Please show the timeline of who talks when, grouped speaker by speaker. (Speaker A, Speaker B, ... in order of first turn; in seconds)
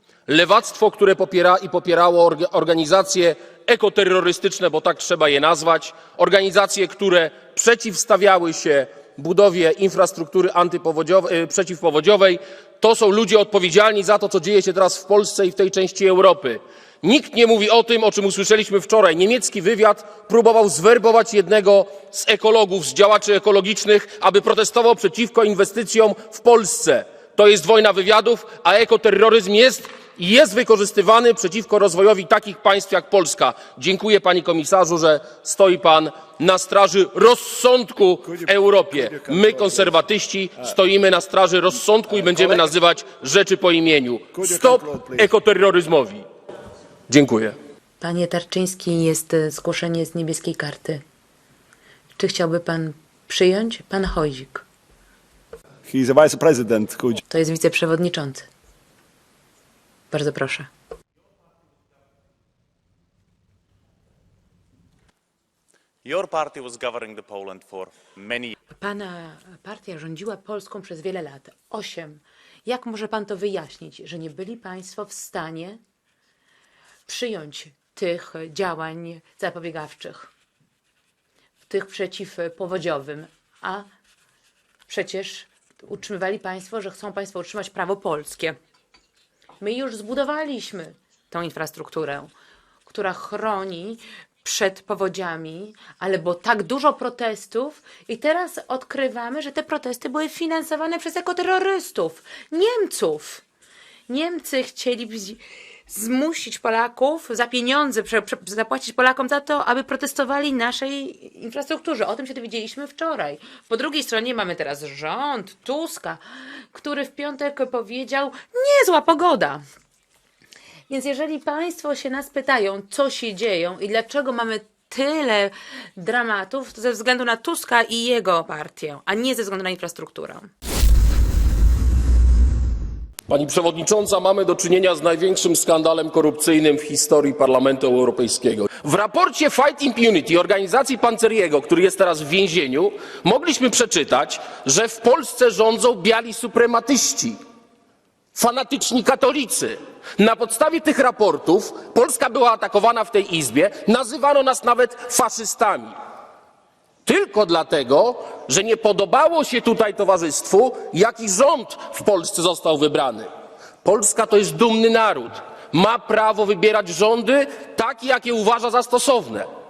Speaker A: 0.3-46.2, 47.1-47.5, 133.3-147.4, 148.3-155.9, 157.1-163.3, 163.8-169.5
Speaker B: 39.0-39.9, 44.3-45.3, 55.9-57.2
Speaker C: 48.0-51.0, 52.2-54.6, 57.3-58.5, 60.1-60.7, 68.8-75.8, 77.1-80.3, 81.7-83.9, 84.9-88.5, 89.6-92.3, 92.8-103.4, 104.1-119.6, 120.9-130.5
Speaker D: 66.0-68.5